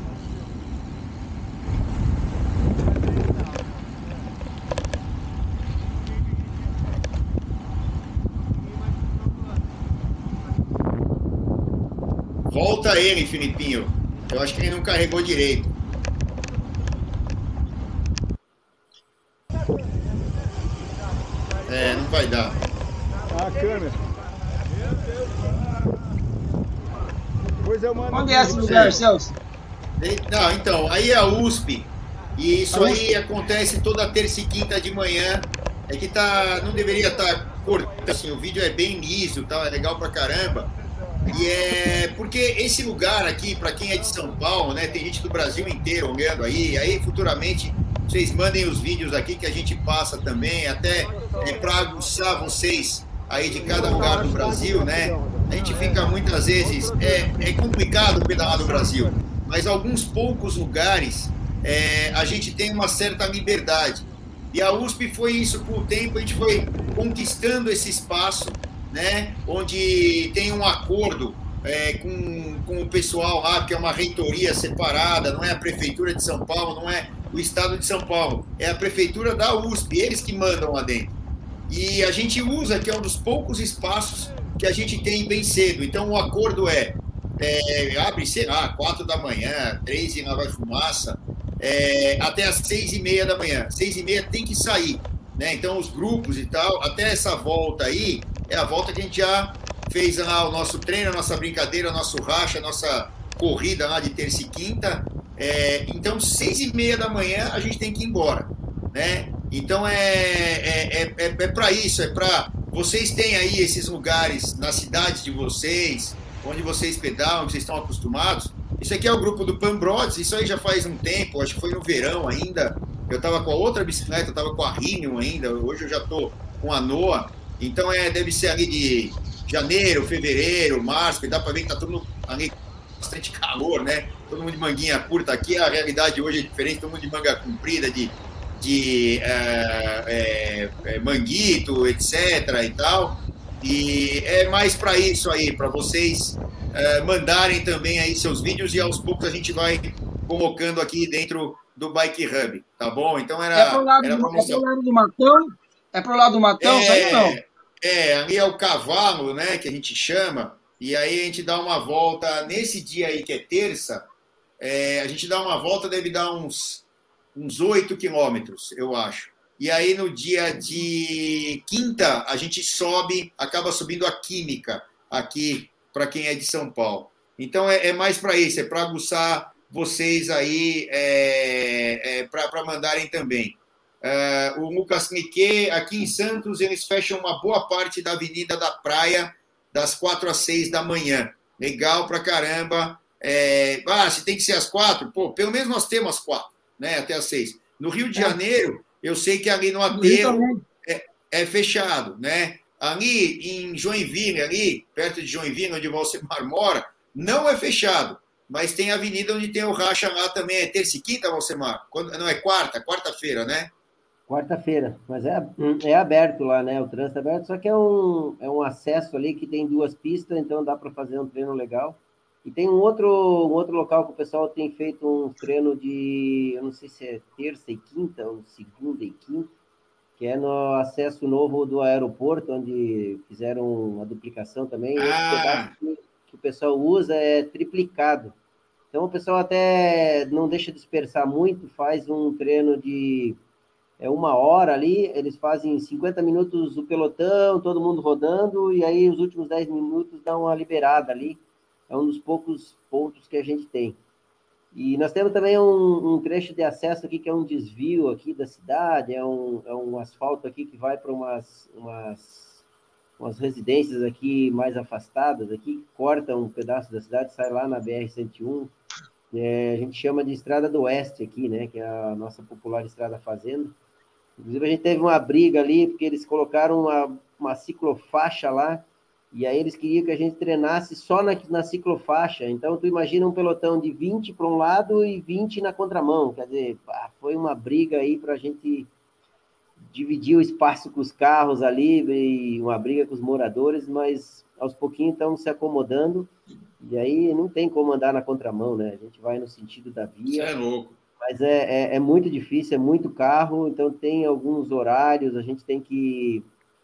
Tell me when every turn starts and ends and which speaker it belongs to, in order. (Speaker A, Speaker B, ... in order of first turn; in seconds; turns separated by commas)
Speaker A: 12.5-15.7, Speaker A: 21.6-22.6, Speaker B: 23.3-24.0, Speaker B: 27.6-28.8, Speaker C: 28.1-29.3, Speaker A: 28.6-29.0, Speaker A: 30.0-40.7, Speaker B: 32.7-33.0, Speaker A: 41.2-81.1, Speaker B: 53.6-55.5, Speaker A: 81.7-154.6, Speaker C: 153.5-157.4, Speaker A: 156.6-164.1, Speaker A: 164.6-213.7, Speaker C: 199.9-200.6, Speaker D: 214.3-229.5, Speaker D: 230.2-238.3, Speaker A: 235.0-235.7, Speaker D: 238.9-243.4, Speaker D: 244.0-254.0, Speaker D: 254.7-262.6, Speaker D: 263.2-268.7, Speaker D: 269.3-273.7, Speaker D: 274.4-288.9, Speaker D: 289.9-300.5, Speaker A: 300.3-301.0, Speaker D: 301.2-306.5